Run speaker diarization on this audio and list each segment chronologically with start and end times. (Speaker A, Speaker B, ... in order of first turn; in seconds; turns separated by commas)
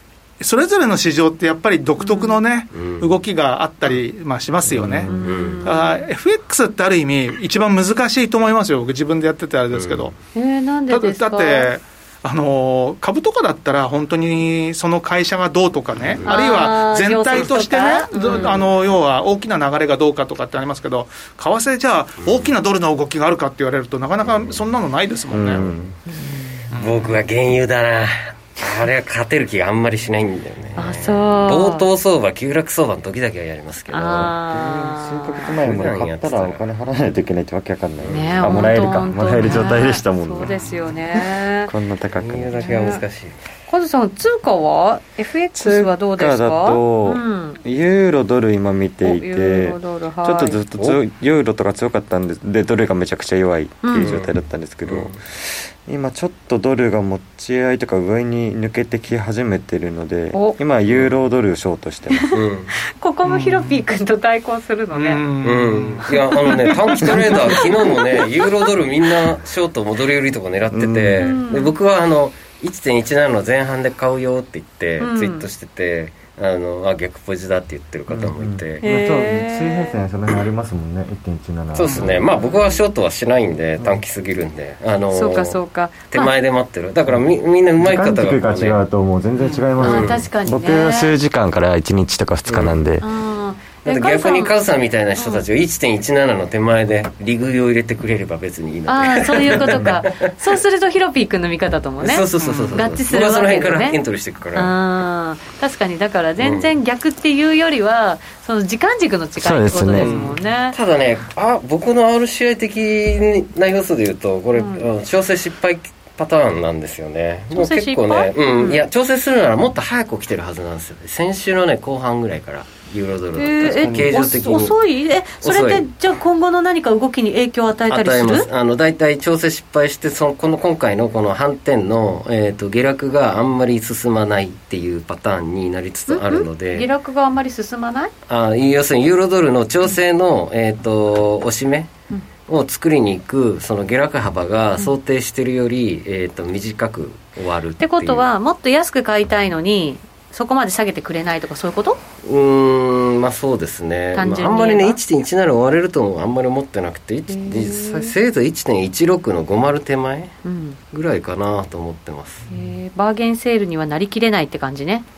Speaker A: 0.4-5.1, Speaker B: 2.0-2.4, Speaker C: 2.7-3.1, Speaker D: 4.7-5.2, Speaker B: 5.1-6.0, Speaker C: 5.1-5.7, Speaker A: 5.7-10.1, Speaker C: 9.7-10.2, Speaker B: 10.3-11.7, Speaker A: 10.9-25.7, Speaker B: 16.2-18.7, Speaker D: 25.3-26.0, Speaker B: 26.1-26.6, Speaker C: 26.7-34.7, Speaker B: 30.8-31.9, Speaker B: 33.9-35.5, Speaker D: 34.5-40.6, Speaker C: 35.4-36.6, Speaker C: 38.0-38.6, Speaker B: 38.1-41.7, Speaker D: 41.7-42.9, Speaker C: 42.2-43.4, Speaker B: 42.6-43.0, Speaker B: 43.7-47.6, Speaker D: 45.6-62.3, Speaker B: 49.0-50.6, Speaker B: 53.8-54.1, Speaker C: 54.0-54.3, Speaker C: 54.9-55.1, Speaker B: 62.1-65.2, Speaker C: 62.3-62.8, Speaker A: 63.2-63.8, Speaker A: 64.9-67.6, Speaker C: 65.4-78.8, Speaker B: 67.1-68.4, Speaker D: 70.7-71.3, Speaker B: 71.2-71.8, Speaker B: 75.0-75.5, Speaker D: 78.1-82.3, Speaker B: 78.8-80.0, Speaker C: 81.7-88.8, Speaker B: 82.0-82.8, Speaker B: 85.1-86.3, Speaker D: 87.8-93.0, Speaker B: 89.8-91.1, Speaker C: 89.8-90.3, Speaker C: 92.5-92.8, Speaker B: 93.0-94.5, Speaker C: 93.8-100.3, Speaker B: 95.2-95.4, Speaker B: 98.9-104.0, Speaker C: 102.0-104.7, Speaker A: 102.4-102.8, Speaker B: 104.5-110.8, Speaker C: 106.4-106.7, Speaker D: 109.4-110.2, Speaker C: 109.9-124.8, Speaker B: 114.6-114.8, Speaker B: 117.5-118.8, Speaker B: 123.4-128.5, Speaker D: 123.6-124.2, Speaker C: 125.4-125.9, Speaker C: 127.9-136.9, Speaker B: 136.1-138.1, Speaker C: 138.3-141.9, Speaker C: 142.5-148.3, Speaker B: 147.8-152.0, Speaker C: 152.2-160.3, Speaker B: 154.2-155.0, Speaker B: 157.3-158.2, Speaker B: 160.4-160.8, Speaker C: 160.9-162.5, Speaker B: 162.5-165.1